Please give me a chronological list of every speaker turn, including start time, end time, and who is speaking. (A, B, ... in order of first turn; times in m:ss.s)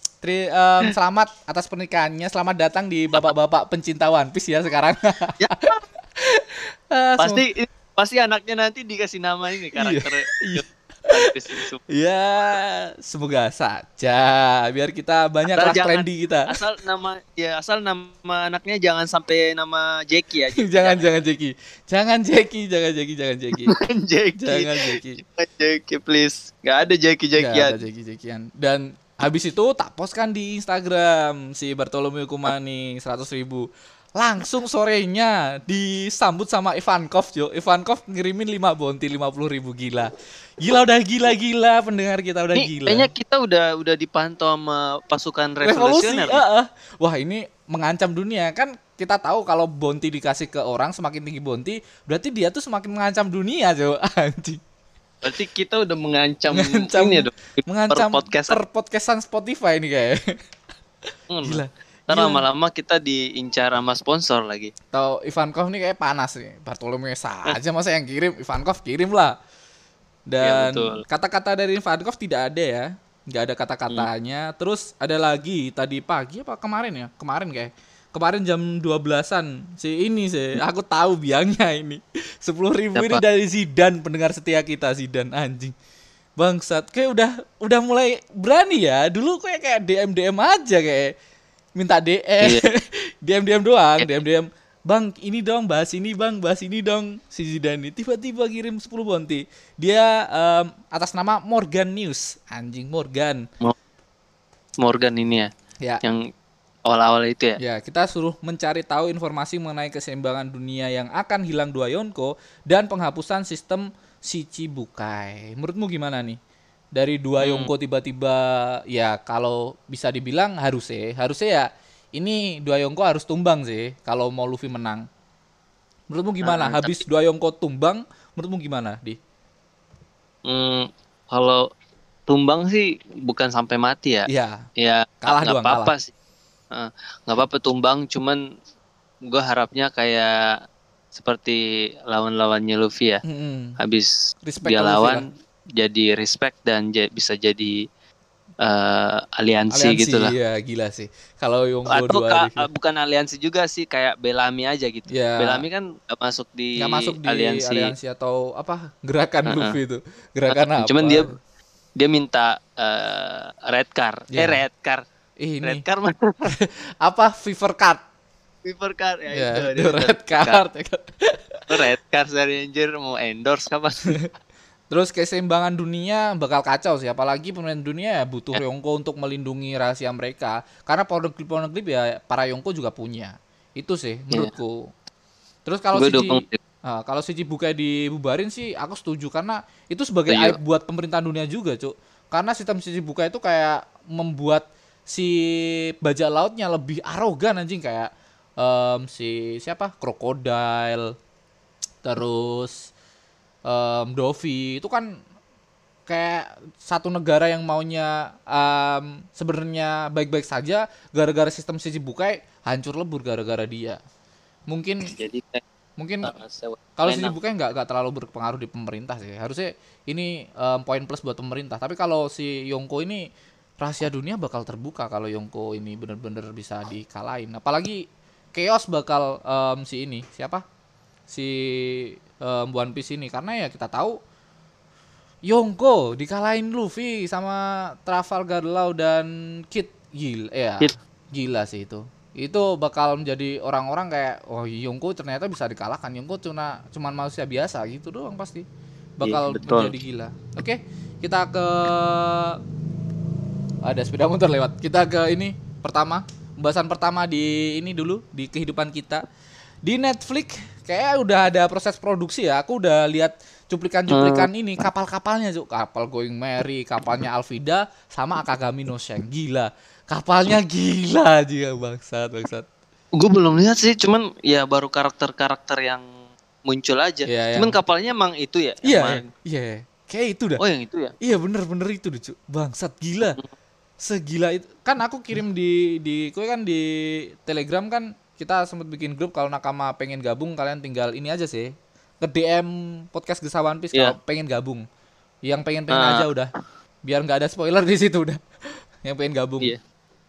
0:00.2-0:07.4 A
0:05.4-0:05.8 B
0:07.2-0:11.8 B
0:09.8-0:10.6 A
0:11.9-0:16.5 A
0:15.5-0:21.1 B
0:20.6-0:23.7 A
0:23.6-0:27.8 B
0:24.4-0:25.2 A
0:27.4-0:43.1 A
0:42.5-0:46.4 B
0:45.6-0:54.6 A
0:55.2-0:58.6 B
0:56.5-1:00.4 A
1:01.3-1:04.7 B
1:01.4-1:02.4 A
1:04.9-1:09.4 A
1:10.3-1:25.7 A
1:10.4-1:11.0 B
1:22.9-1:23.2 B
1:26.4-1:31.2 A
1:31.8-1:43.4 A
1:32.4-1:32.7 B
1:44.8-1:45.5 B
1:46.0-1:46.3 B
1:46.9-1:47.6 B
1:47.6-1:56.4 A
1:56.9-2:05.0 A
1:57.4-1:57.7 B
2:06.1-2:09.2 A
2:06.4-2:07.0 B
2:10.4-2:11.6 B
2:12.3-2:16.1 B
2:14.3-2:14.6 A
2:15.2-2:15.9 A
2:16.7-2:18.4 B
2:19.2-2:20.6 B
2:21.1-2:23.2 B
2:23.2-2:23.8 A
2:23.8-2:24.1 B
2:24.4-2:25.2 A
2:24.6-2:25.2 B
2:25.8-2:27.8 B
2:28.6-2:30.3 B
2:29.7-2:32.6 A
2:31.9-2:37.9 B
2:35.1-2:35.6 A
2:36.8-2:41.4 A
2:39.4-2:39.8 B
2:40.5-2:41.3 B
2:42.0-2:45.0 B
2:44.3-2:44.6 A
2:45.4-2:45.8 A
2:45.6-2:46.5 B
2:46.4-2:48.0 A
2:48.6-2:50.6 B
2:49.3-2:51.8 A
2:51.7-2:54.2 B
2:54.9-3:04.9 A
3:05.6-3:21.1 A
3:05.9-3:06.6 B
3:10.3-3:10.6 B
3:22.0-3:22.9 A
3:23.6-3:25.2 A
3:26.1-3:34.0 A
3:34.7-3:35.1 A
3:35.1-3:35.6 B
3:36.0-3:36.3 A
3:36.2-3:37.4 B
3:37.0-3:43.3 A
3:43.8-3:48.0 A
3:48.5-3:50.6 A
3:51.3-3:54.2 A
3:55.4-4:08.6 A
4:09.2-4:12.6 A
4:09.2-4:09.9 B
4:13.8-4:19.2 A
4:19.8-4:32.7 A
4:24.1-4:24.5 B
4:33.2-4:36.0 B
4:36.6-4:39.3 B
4:37.3-4:37.8 A
4:38.8-4:40.6 A
4:40.6-4:41.1 B
4:41.2-4:43.4 A
4:44.0-4:54.8 A
4:55.4-4:56.5 A
4:55.9-4:56.3 B
4:57.0-4:58.4 A
4:59.0-4:59.7 A